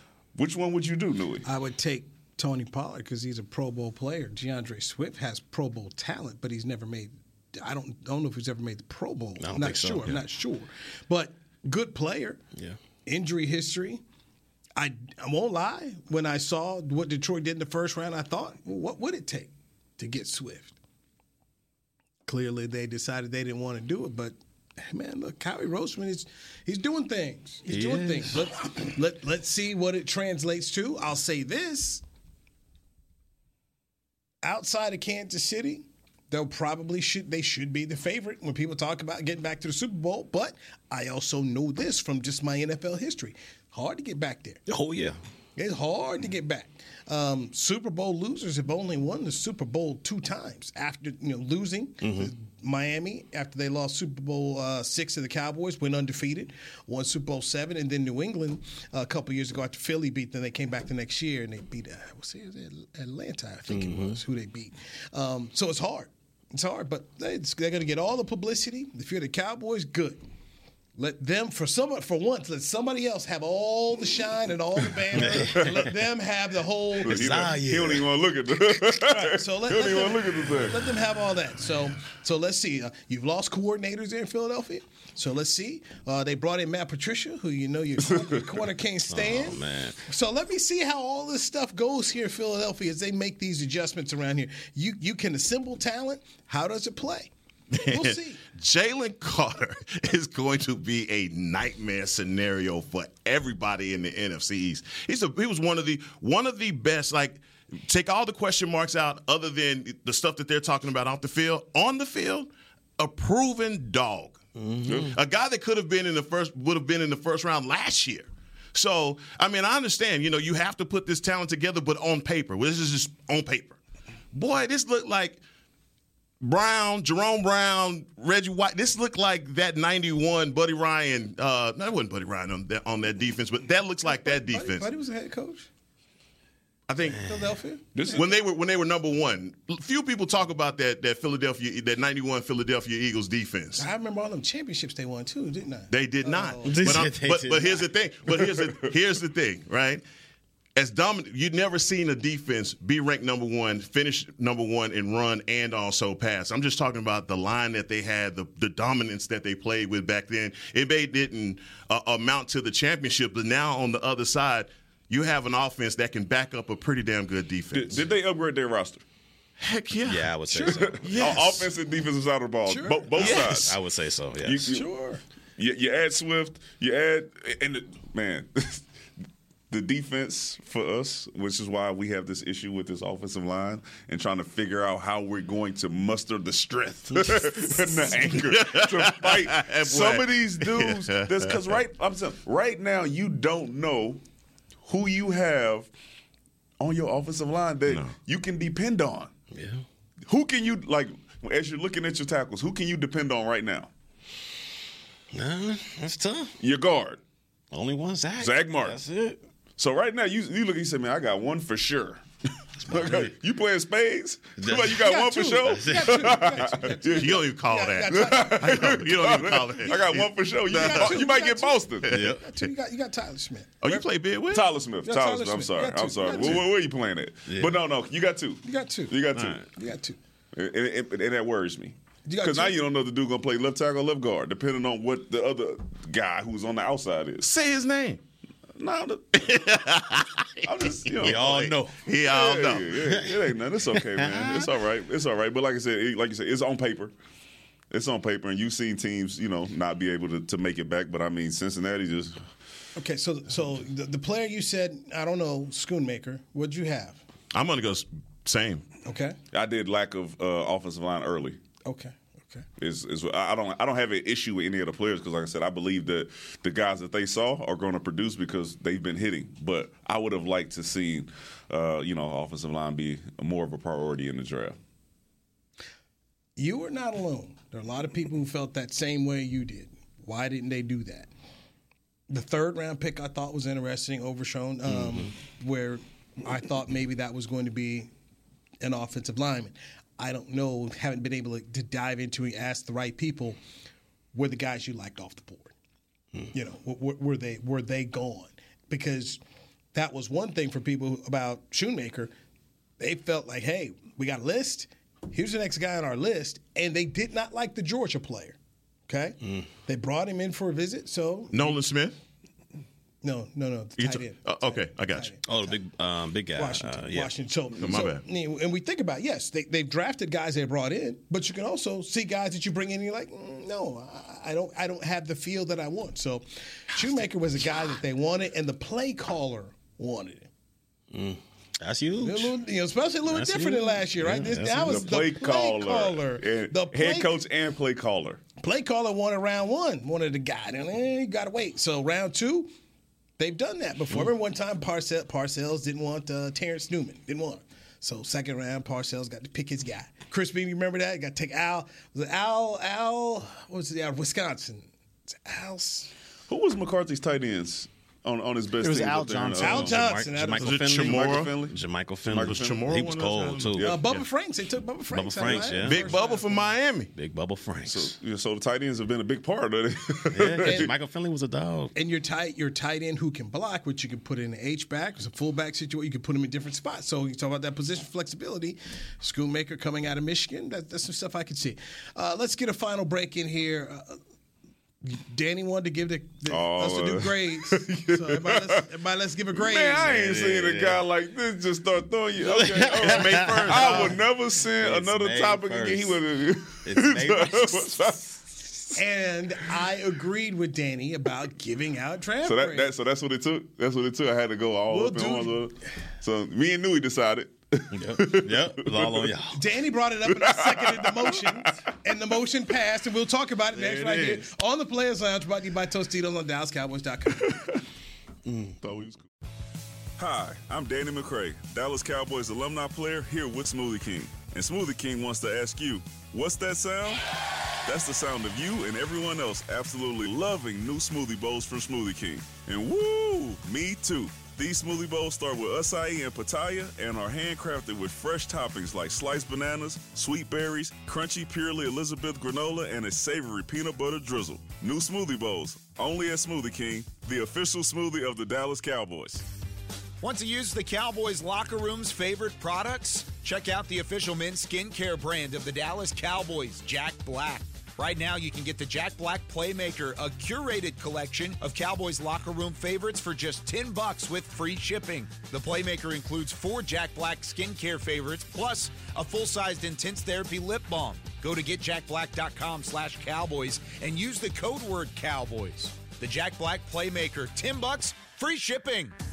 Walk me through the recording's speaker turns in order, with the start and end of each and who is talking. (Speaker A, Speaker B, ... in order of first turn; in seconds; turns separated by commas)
Speaker A: 0.3-1.4, Speaker B: 1.4-12.4, Speaker C: 9.4-10.2, Speaker B: 13.1-14.0, Speaker B: 14.8-20.8, Speaker B: 22.3-32.0, Speaker C: 27.6-28.4, Speaker B: 34.4-44.6, Speaker C: 44.7-45.2, Speaker B: 45.6-70.2, Speaker C: 52.0-52.3, Speaker C: 63.7-64.2, Speaker B: 71.0-77.2, Speaker C: 75.1-75.8, Speaker A: 75.2-75.7, Speaker C: 77.0-78.1, Speaker A: 77.1-80.8, Speaker B: 79.0-97.3, Speaker C: 89.1-90.0, Speaker D: 97.7-114.4, Speaker B: 97.9-98.4, Speaker C: 114.6-115.1, Speaker A: 114.9-115.1, Speaker D: 115.1-123.8, Speaker D: 124.3-125.4, Speaker D: 126.4-134.9, Speaker B: 134.1-135.7, Speaker D: 136.9-137.3, Speaker C: 137.1-137.4, Speaker B: 137.2-138.2, Speaker D: 138.1-143.9, Speaker B: 143.8-147.0, Speaker D: 145.9-150.0, Speaker C: 146.6-147.9, Speaker D: 150.8-168.1, Speaker A: 167.7-169.0, Speaker D: 169.6-171.7, Speaker C: 170.0-171.3, Speaker A: 170.8-173.8, Speaker B: 172.7-173.3, Speaker C: 173.1-174.8, Speaker D: 173.2-173.5, Speaker A: 174.4-174.9, Speaker B: 174.7-175.2, Speaker A: 175.6-178.8, Speaker A: 179.7-194.2, Speaker D: 187.2-191.7, Speaker A: 194.8-195.9, Speaker A: 196.8-199.3, Speaker C: 199.5-199.8, Speaker A: 200.3-203.9, Speaker C: 205.3-206.6, Speaker A: 206.6-207.2, Speaker C: 207.7-209.4, Speaker A: 208.4-209.0, Speaker A: 209.8-212.2, Speaker C: 212.8-213.3, Speaker A: 212.8-217.4, Speaker C: 214.6-216.6, Speaker B: 215.0-218.8, Speaker D: 217.2-221.2, Speaker A: 218.1-222.2, Speaker B: 220.7-224.1, Speaker D: 222.0-222.4, Speaker C: 222.1-222.4, Speaker D: 223.8-224.6, Speaker A: 224.5-229.6, Speaker B: 225.0-226.7, Speaker C: 227.5-227.8, Speaker B: 228.6-230.2, Speaker C: 229.3-229.7, Speaker A: 230.5-237.5, Speaker B: 232.3-232.8, Speaker D: 237.4-238.2, Speaker A: 238.8-239.5, Speaker D: 239.3-242.9, Speaker A: 240.6-247.1, Speaker C: 241.2-241.9, Speaker C: 242.9-244.7, Speaker A: 247.9-252.4, Speaker B: 252.9-257.2, Speaker D: 257.5-258.9, Speaker B: 259.0-259.4, Speaker A: 259.5-261.6, Speaker B: 261.9-262.6, Speaker A: 262.8-274.8, Speaker B: 276.6-281.3, Speaker B: 282.3-288.1, Speaker C: 284.9-285.3, Speaker B: 288.8-293.6, Speaker B: 294.3-295.7, Speaker B: 296.5-299.4, Speaker B: 299.9-302.3, Speaker B: 303.0-308.6, Speaker B: 309.1-311.8, Speaker D: 311.5-312.1, Speaker B: 313.2-315.8, Speaker D: 314.0-315.3, Speaker C: 315.4-317.3, Speaker B: 316.5-330.5, Speaker D: 317.8-318.2, Speaker C: 331.1-332.6, Speaker B: 332.2-337.4, Speaker C: 333.3-335.1, Speaker A: 334.9-338.4, Speaker B: 338.6-342.7, Speaker B: 343.4-356.1, Speaker A: 356.5-360.0, Speaker C: 358.8-363.9, Speaker B: 359.6-361.1, Speaker D: 360.6-361.5, Speaker A: 361.1-363.0, Speaker D: 362.4-364.2, Speaker A: 363.7-364.0, Speaker B: 363.8-366.8, Speaker C: 365.1-366.1, Speaker D: 365.4-367.1, Speaker C: 367.1-368.1, Speaker A: 367.9-370.9, Speaker C: 370.3-371.9, Speaker B: 370.6-370.9, Speaker B: 371.9-384.2, Speaker B: 385.0-390.1, Speaker A: 386.5-388.8, Speaker A: 389.5-398.8, Speaker C: 390.0-391.0, Speaker C: 392.4-394.2, Speaker D: 393.0-394.2, Speaker C: 394.8-396.2, Speaker C: 396.8-397.9, Speaker B: 398.9-402.9, Speaker A: 402.4-409.3, Speaker B: 404.9-405.6, Speaker C: 407.9-409.6, Speaker B: 409.5-417.6, Speaker A: 410.3-411.5, Speaker D: 413.8-414.3, Speaker C: 418.4-418.8, Speaker A: 418.8-419.2, Speaker A: 420.2-427.2, Speaker A: 427.9-449.4, Speaker E: 450.2-479.1